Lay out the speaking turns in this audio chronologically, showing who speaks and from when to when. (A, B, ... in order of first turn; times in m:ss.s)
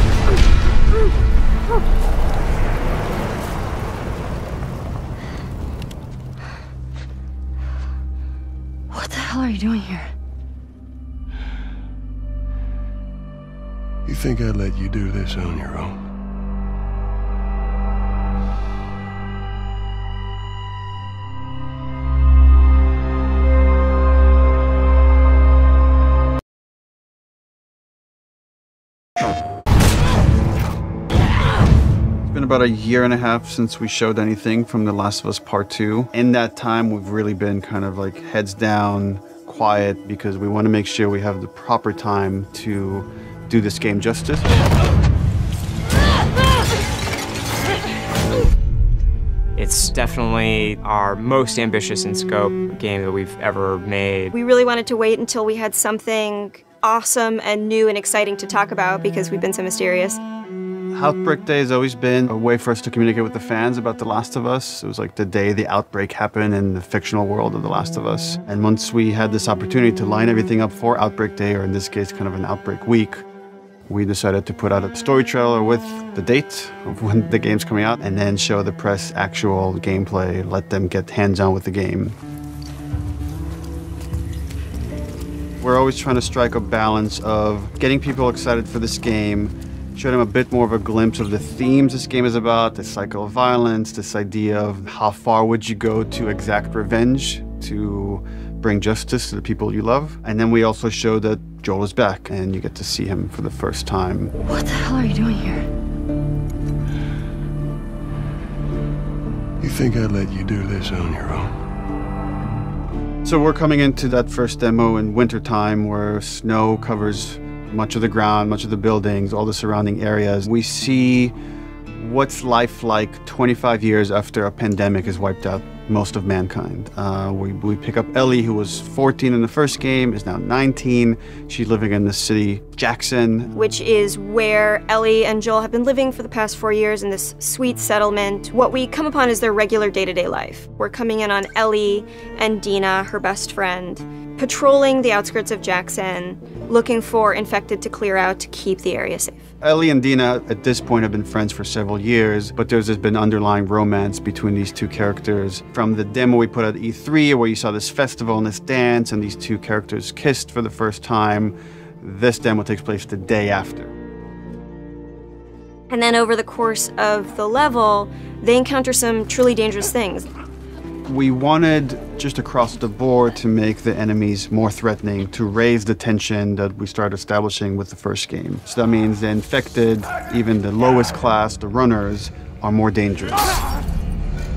0:08.9-0:10.1 A
0:14.0-0:16.0 B
0:32.3-0:44.5 C
0:49.6-0:54.4 D
0:54.3-1:00.2 E
1:00.9-1:13.2 C
1:13.9-1:22.2 C
1:25.6-1:44.3 C
1:44.4-1:45.7 A
1:49.6-1:51.6 B
1:53.2-2:01.3 C
2:02.0-2:13.5 C
2:13.5-2:29.5 E
2:29.6-2:43.9 C
2:45.9-2:50.3 E
2:51.1-3:03.4 C